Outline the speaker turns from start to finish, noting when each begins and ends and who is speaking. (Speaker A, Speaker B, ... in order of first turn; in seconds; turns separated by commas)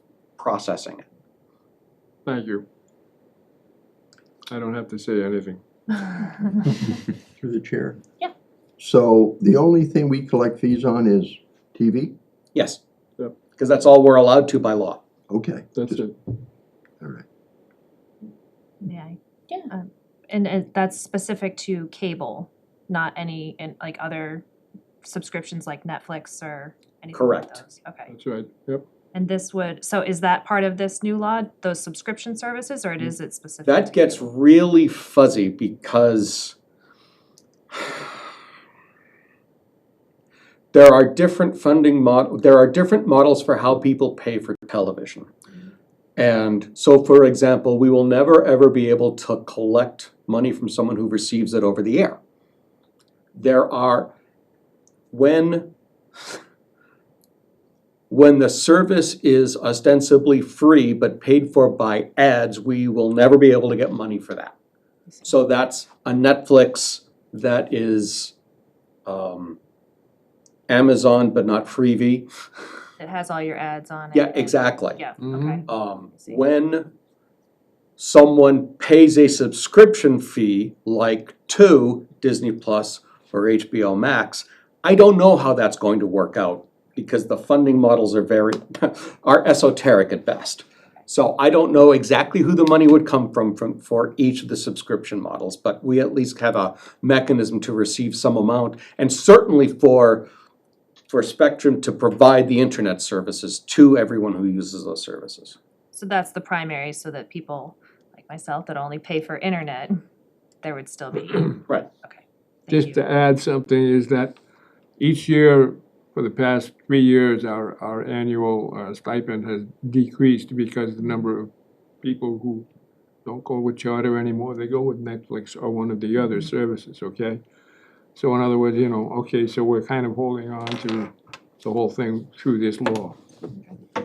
Speaker A: 0.4-1.0, Speaker B: 2.2-2.6, Speaker B: 4.5-6.2, Speaker C: 7.4-8.0, Speaker C: 8.8-12.1, Speaker A: 12.5-12.8, Speaker A: 13.6-15.0, Speaker C: 15.3-16.1, Speaker B: 15.7-16.1, Speaker D: 18.8-19.2, Speaker D: 19.7-24.4, Speaker D: 25.0-28.1, Speaker A: 27.1-27.6, Speaker B: 28.1-28.8, Speaker D: 29.1-34.3, Speaker A: 33.6-36.5, Speaker A: 40.7-45.3, Speaker A: 46.2-52.2, Speaker A: 53.3-54.1, Speaker A: 55.1-55.7, Speaker A: 58.1-64.5, Speaker A: 65.2-68.3, Speaker A: 69.0-69.6, Speaker A: 70.7-72.3, Speaker D: 73.0-75.7, Speaker A: 74.1-75.0, Speaker B: 75.2-75.6, Speaker A: 75.7-76.9, Speaker A: 78.0-100.3, Speaker A: 101.1-105.6, Speaker D: 105.9-110.0, Speaker D: 110.6-113.0, Speaker B: 112.7-114.4, Speaker B: 115.0-121.5, Speaker B: 122.0-122.7, Speaker B: 123.2-127.4, Speaker B: 128.1-133.2